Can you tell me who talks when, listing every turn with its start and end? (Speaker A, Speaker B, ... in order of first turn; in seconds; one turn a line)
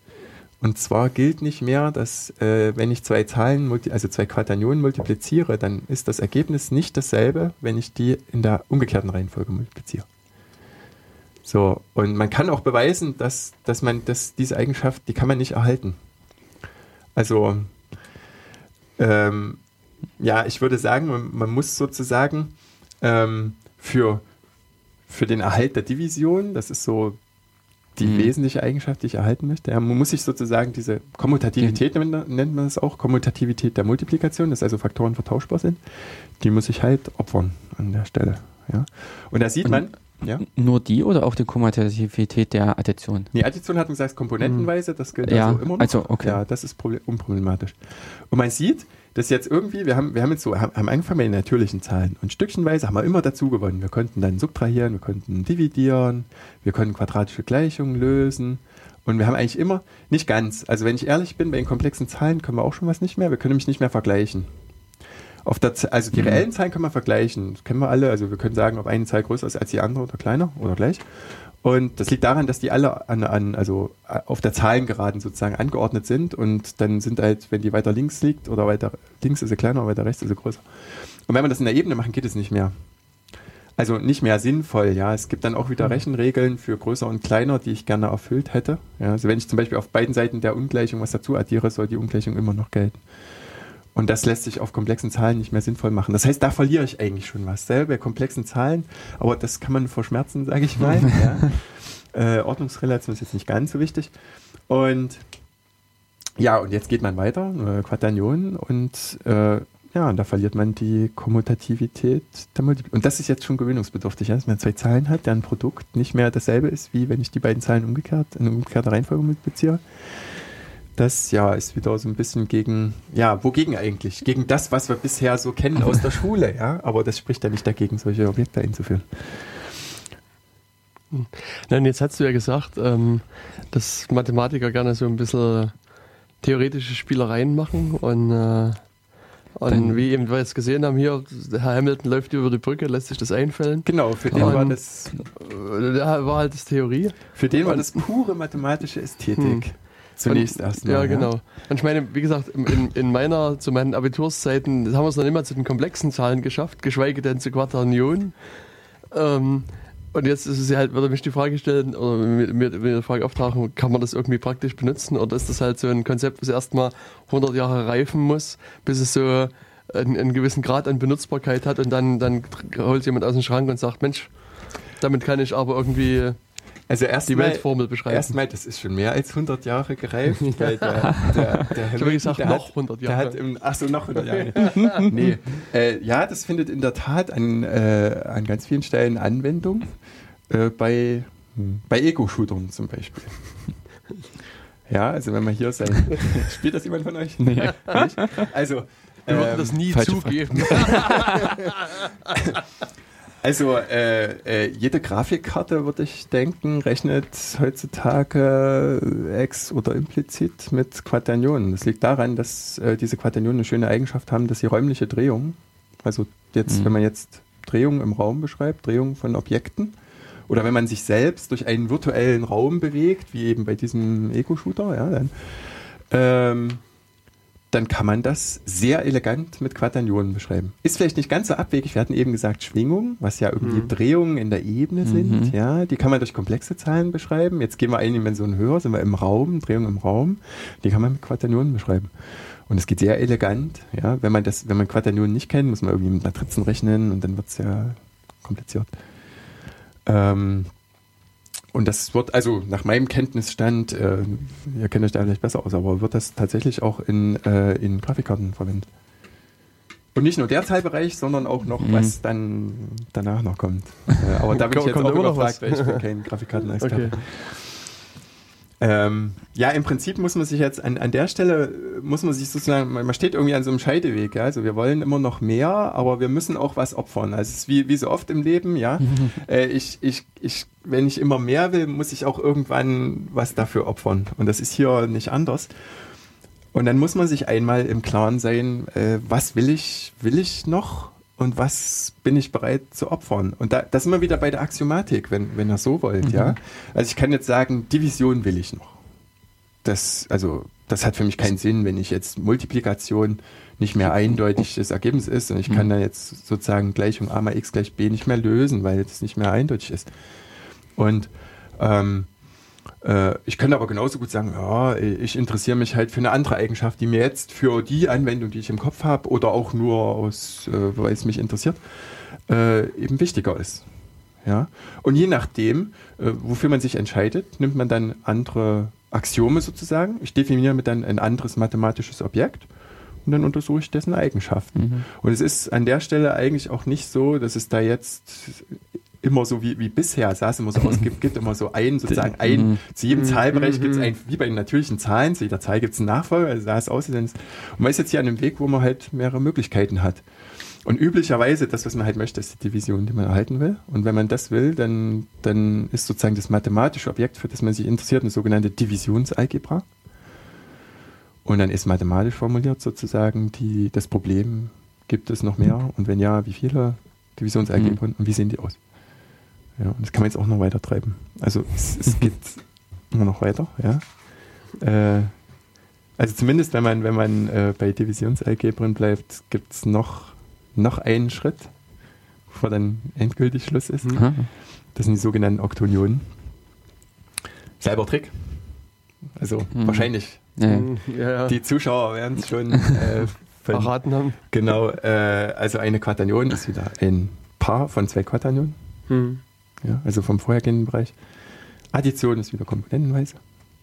Speaker A: 0.6-10.1
Speaker A: 11.4-16.0
Speaker A: 17.1-17.8
Speaker A: 19.0-19.6
Speaker A: 20.2-24.2
Speaker A: 25.1-27.2
Speaker A: 27.9-35.8
Speaker B: 28.0-28.3
Speaker A: 36.4-40.4
Speaker B: 39.6-43.3
Speaker A: 43.3-64.5
Speaker B: 45.2-46.4
Speaker A: 65.4-82.7
Speaker B: 66.1-66.4
Speaker A: 83.8-93.0
Speaker A: 93.9-104.1
Speaker A: 104.7-105.2
Speaker A: 106.4-119.8
Speaker A: 121.0-129.8
Speaker C: 131.1-135.7
Speaker C: 136.4-138.9
Speaker C: 139.5-148.0
Speaker B: 139.7-140.0
Speaker A: 143.8-145.3
Speaker B: 144.3-144.6
Speaker A: 147.3-151.3
Speaker C: 149.3-158.4
Speaker C: 159.1-176.4
Speaker A: 176.9-189.9
Speaker C: 177.3-178.3
Speaker C: 180.4-180.9
Speaker C: 181.9-183.4
Speaker C: 184.3-185.1
Speaker A: 190.5-193.6
Speaker A: 194.9-200.0
Speaker B: 197.4-198.5
Speaker C: 199.3-202.3
Speaker B: 199.9-201.3
Speaker A: 200.5-201.5
Speaker A: 202.3-202.6
Speaker A: 203.4-220.0
Speaker A: 220.5-226.8
Speaker A: 227.7-242.1
Speaker C: 233.6-233.9
Speaker B: 235.0-235.5
Speaker A: 242.7-248.9
Speaker A: 250.0-250.7
Speaker A: 251.7-258.9
Speaker A: 260.1-267.9
Speaker B: 261.8-262.1
Speaker C: 264.5-266.0
Speaker C: 266.8-267.2
Speaker A: 268.8-285.7
Speaker A: 286.7-299.0
Speaker B: 296.2-296.6
Speaker A: 299.8-310.1
Speaker A: 310.9-312.3
Speaker A: 313.0-321.8
Speaker A: 322.5-323.9
Speaker A: 324.4-332.7
Speaker A: 333.2-350.2
Speaker B: 334.8-335.1
Speaker B: 342.1-342.8
Speaker C: 343.1-344.1
Speaker A: 350.8-359.9
Speaker A: 361.4-368.8
Speaker A: 369.8-374.2
Speaker A: 374.7-375.4
Speaker A: 376.2-381.7
Speaker A: 382.5-386.2
Speaker B: 384.1-384.5
Speaker A: 387.8-388.7
Speaker A: 389.3-390.6
Speaker B: 389.7-390.9
Speaker C: 390.7-391.6
Speaker A: 391.4-398.8
Speaker C: 393.7-394.4
Speaker C: 399.1-399.4
Speaker A: 399.8-401.1
Speaker A: 401.9-403.4